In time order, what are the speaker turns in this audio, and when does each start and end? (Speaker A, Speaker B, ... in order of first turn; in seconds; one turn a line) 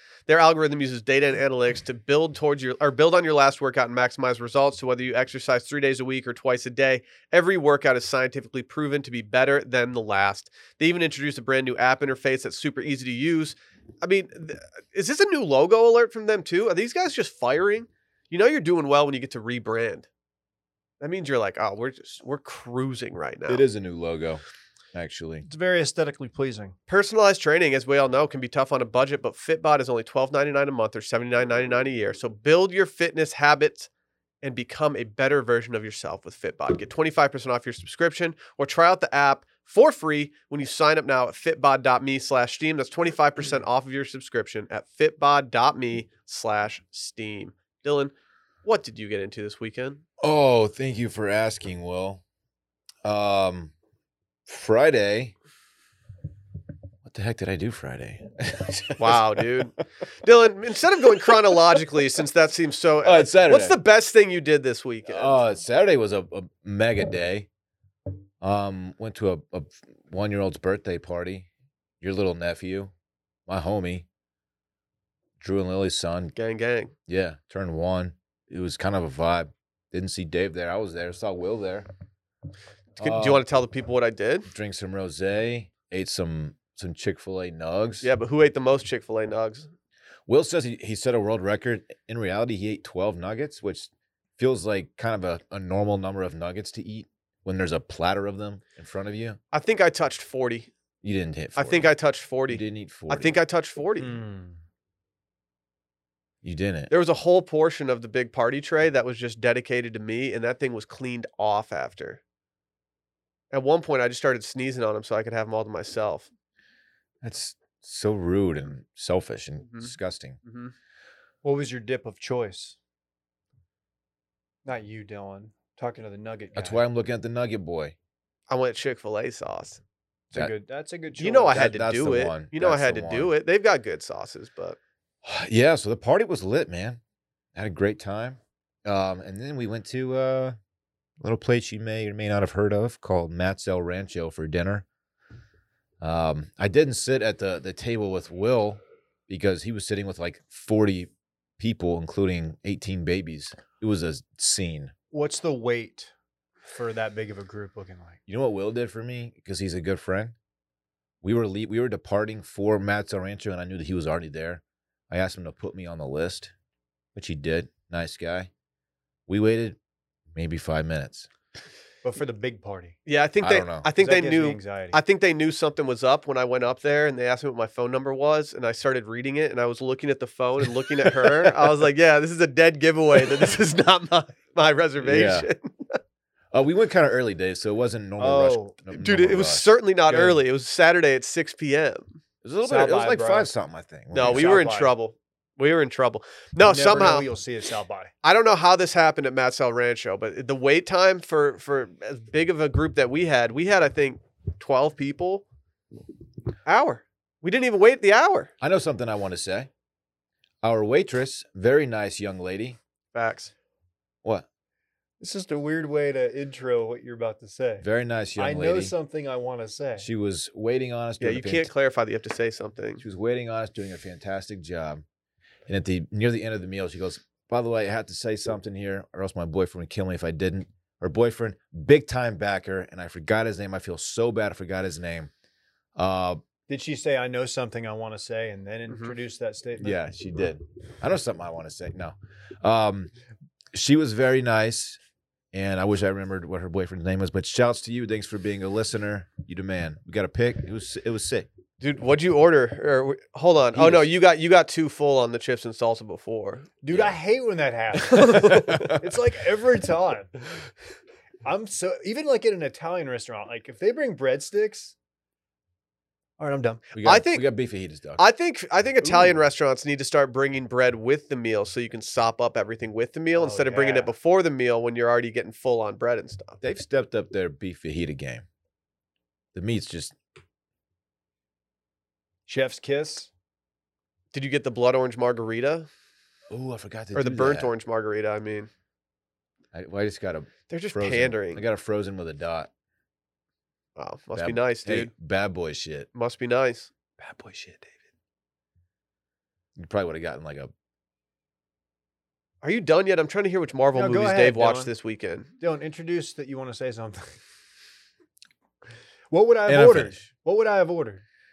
Speaker A: 0.3-20.1
Speaker A: 21.0-23.6
Speaker B: 23.5-24.4
Speaker B: 24.9-25.4
Speaker C: 25.4-26.7
Speaker A: 26.9-33.9
Speaker A: 34.4-48.1
Speaker A: 48.6-50.0
Speaker B: 50.2-52.2
Speaker B: 53.0-53.7
Speaker B: 54.5-55.3
Speaker B: 57.0-59.7
Speaker A: 59.0-65.4
Speaker B: 63.0-63.8
Speaker B: 65.1-67.5
Speaker B: 68.4-71.5
Speaker B: 72.0-72.9
Speaker B: 73.5-74.0
Speaker B: 75.4-76.3
Speaker A: 76.3-76.9
Speaker B: 77.1-81.9
Speaker B: 83.0-83.4
Speaker A: 83.0-84.5
Speaker B: 84.5-88.1
Speaker A: 88.0-89.7
Speaker B: 90.3-99.4
Speaker A: 99.5-100.7
Speaker B: 101.0-101.9
Speaker A: 101.6-104.1
Speaker B: 102.5-103.4
Speaker C: 104.0-104.6
Speaker B: 106.4-106.9
Speaker A: 106.9-112.2
Speaker A: 113.5-116.3
Speaker B: 117.2-120.4
Speaker A: 119.6-119.9
Speaker A: 120.4-120.7
Speaker C: 121.4-122.8
Speaker C: 124.6-126.8
Speaker B: 126.5-127.9
Speaker A: 128.5-129.8
Speaker C: 130.3-131.7
Speaker A: 131.2-134.8
Speaker B: 131.5-133.3
Speaker B: 135.2-137.0
Speaker B: 137.5-140.6
Speaker B: 141.2-144.8
Speaker B: 146.0-154.9
Speaker C: 155.1-156.1
Speaker C: 156.7-158.2
Speaker B: 158.3-160.3
Speaker B: 161.2-166.5
Speaker B: 167.1-168.5
Speaker B: 169.3-169.8
Speaker B: 170.3-171.3
Speaker C: 172.0-173.0
Speaker A: 173.1-186.0
Speaker B: 173.4-173.9
Speaker C: 174.0-175.0
Speaker B: 181.2-181.5
Speaker B: 185.0-185.5
Speaker B: 186.5-189.7
Speaker C: 188.2-188.8
Speaker A: 189.0-192.2
Speaker C: 190.1-190.4
Speaker B: 192.4-194.6
Speaker C: 192.6-193.5
Speaker A: 194.1-197.2
Speaker C: 194.2-194.9
Speaker C: 196.6-198.1
Speaker A: 198.2-205.4
Speaker A: 206.7-208.5
Speaker B: 208.6-209.7
Speaker B: 210.6-212.8
Speaker A: 213.1-213.5
Speaker C: 215.2-217.8
Speaker B: 217.8-218.9
Speaker C: 218.4-220.1
Speaker B: 220.0-221.7
Speaker A: 221.2-223.0
Speaker B: 223.0-225.0
Speaker B: 225.7-235.3
Speaker B: 235.9-236.4
Speaker C: 236.7-240.0
Speaker B: 239.8-243.1
Speaker B: 243.7-245.0
Speaker B: 245.5-251.5
Speaker A: 251.8-256.7
Speaker B: 253.7-254.1
Speaker C: 256.8-260.3
Speaker A: 258.1-258.9
Speaker B: 258.5-258.9
Speaker C: 261.4-264.9
Speaker C: 266.4-266.8
Speaker B: 266.9-268.2
Speaker A: 267.0-267.5
Speaker A: 268.2-276.6
Speaker C: 269.0-269.4
Speaker C: 273.4-274.1
Speaker B: 276.6-278.4
Speaker B: 279.5-280.1
Speaker C: 282.5-283.3
Speaker A: 284.3-285.9
Speaker B: 286.5-287.7
Speaker A: 287.1-288.7
Speaker B: 289.7-292.7
Speaker A: 290.7-291.6
Speaker A: 293.9-295.1
Speaker B: 294.4-296.1
Speaker A: 296.1-296.9
Speaker B: 297.2-297.9
Speaker B: 299.8-300.7
Speaker A: 302.6-305.5
Speaker C: 303.9-304.9
Speaker C: 305.6-307.4
Speaker C: 309.3-311.2
Speaker B: 309.7-310.2